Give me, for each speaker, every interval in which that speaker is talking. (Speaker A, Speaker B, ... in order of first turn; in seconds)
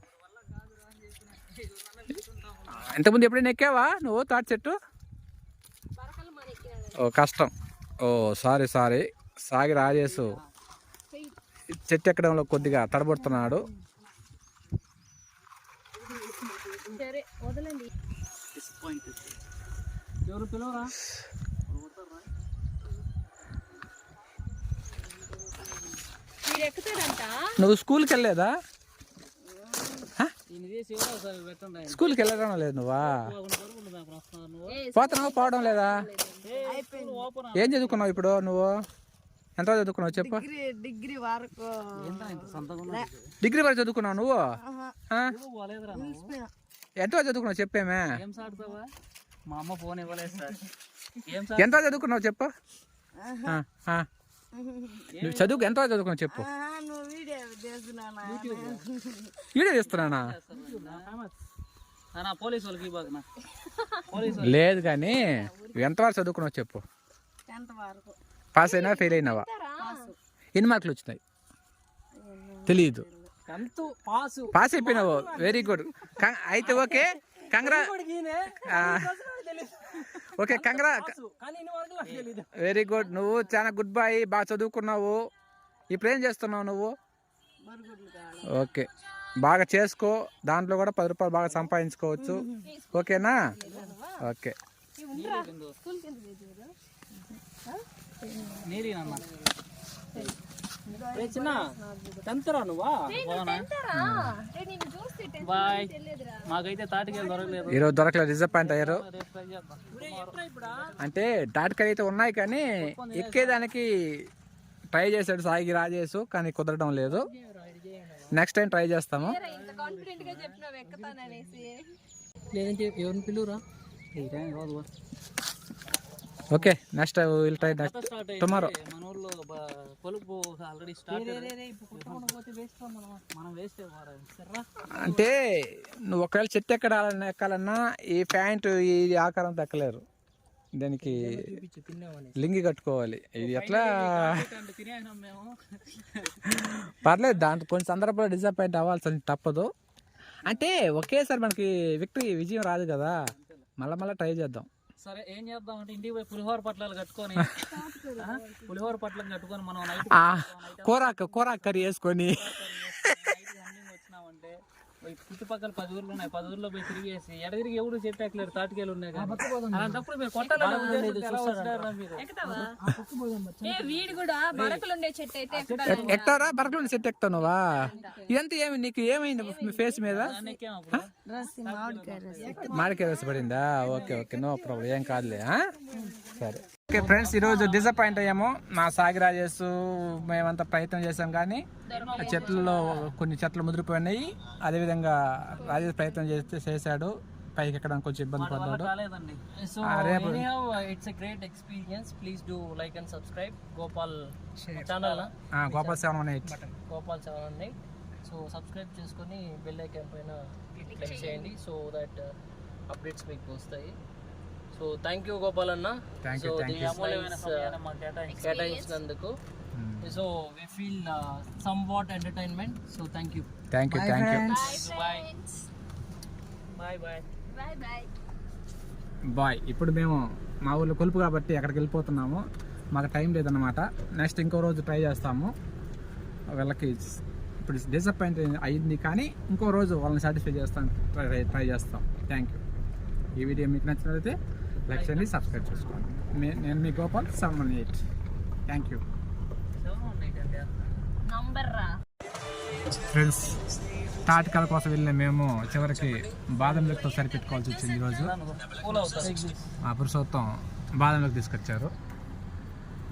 Speaker A: 0.4-2.9, 9.8-10.5, 18.5-19.3, 21.7-22.3, 30.5-32.3, 33.0-34.8, 36.4-38.2, 42.0-43.3, 45.3-46.3, 48.1-48.9, 49.5-50.6, 51.2-51.9, 55.1-55.7, 58.2-58.8, 59.8-61.1, 62.1-63.2, 64.1-64.7, 82.0-82.3, 95.1-95.8, 98.6-99.2, 103.1-103.7, 105.4-105.9, 106.5-107.9, 108.5-111.0, 112.8-113.6, 119.4-120.6, 124.2-124.9, 127.6-132.3, 133.3-134.3, 143.4-146.5, 153.2-153.7, 155.0-157.5, 158.2-172.3, 175.5-176.4, 180.1-183.0, 191.9-192.9, 198.3-199.4, 204.9-205.3, 216.7-218.7, 224.5-225.2, 226.8-227.2, 244.9-246.0, 249.8-250.8, 258.0-259.6
Speaker B: 2.7-4.8, 7.0-10.4, 11.9-13.7, 27.6-28.5, 31.9-33.2, 34.9-36.0, 37.5-38.7, 39.6-40.5, 43.4-44.4, 47.0-48.2, 51.6-52.5, 53.4-54.1, 55.2-56.5, 59.5-60.3, 64.3-66.8, 68.5-69.5, 70.5-71.2, 72.7-73.0, 74.5-77.9, 78.6-79.1, 80.3-81.1, 82.5-85.3, 85.9-86.9, 88.5-88.9, 89.4-93.4, 94.2-94.5, 103.9-104.3, 107.7-109.0, 111.0-113.9, 114.9-117.2, 118.3-119.4, 126.5-128.7, 134.9-140.0, 140.8-141.6, 142.3-144.4, 146.5-149.7, 150.4-153.2, 153.8-154.7, 160.0-163.1, 175.8-180.3, 182.6-185.7, 186.3-198.9, 199.8-200.5, 205.6-206.6, 216.2-217.0, 219.7-220.2, 223.7-224.4, 229.3-232.4, 232.9-235.5, 236.5-242.6, 243.3-244.4, 244.9-248.0, 248.7-249.0, 252.9-253.6, 254.2-258.3, 259.8-261.9
Speaker C: 6.0-7.0, 11.1-11.3, 16.9-17.9, 26.4-27.4, 34.7-36.6, 63.6-64.2, 68.6-70.1, 92.6-94.2, 95.0-96.7, 103.1-106.5, 107.2-107.5, 119.2-121.9, 170.4-171.1, 172.2-172.8, 173.6-176.4, 177.8-178.3, 179.4-180.2, 191.9-193.0, 210.8-211.5, 218.3-219.0, 224.5-225.7, 227.5-228.1, 251.2-251.9
Speaker D: 20.2-20.9, 60.8-61.1, 73.5-75.0, 76.6-77.0, 77.6-79.0, 80.5-82.5, 101.1-101.6, 102.2-103.1, 109.9-110.9, 117.4-118.3, 122.5-123.6, 131.1-132.9, 134.4-134.6, 170.6-171.9, 175.6-175.8, 199.5-206.0, 206.7-212.3, 212.9-213.9, 214.7-217.7, 218.4-219.3, 220.0-223.5, 259.1-259.6
Speaker E: 29.5-30.1, 36.6-37.3, 40.1-43.1, 44.6-44.9, 45.9-46.5, 53.2-53.6, 54.5-55.1, 56.3-59.3, 60.6-61.3, 65.0-65.8, 67.5-68.2, 69.8-70.1, 72.2-73.3, 74.8-76.1, 76.6-79.9, 81.7-82.4, 87.7-88.6, 92.2-92.7, 93.7-93.9, 98.3-98.6, 100.9-102.2, 107.1-107.6, 120.8-121.6, 131.1-133.2, 141.0-142.3, 157.6-158.8, 169.1-170.0, 170.6-171.0, 172.4-174.2, 181.2-186.3, 223.9-224.9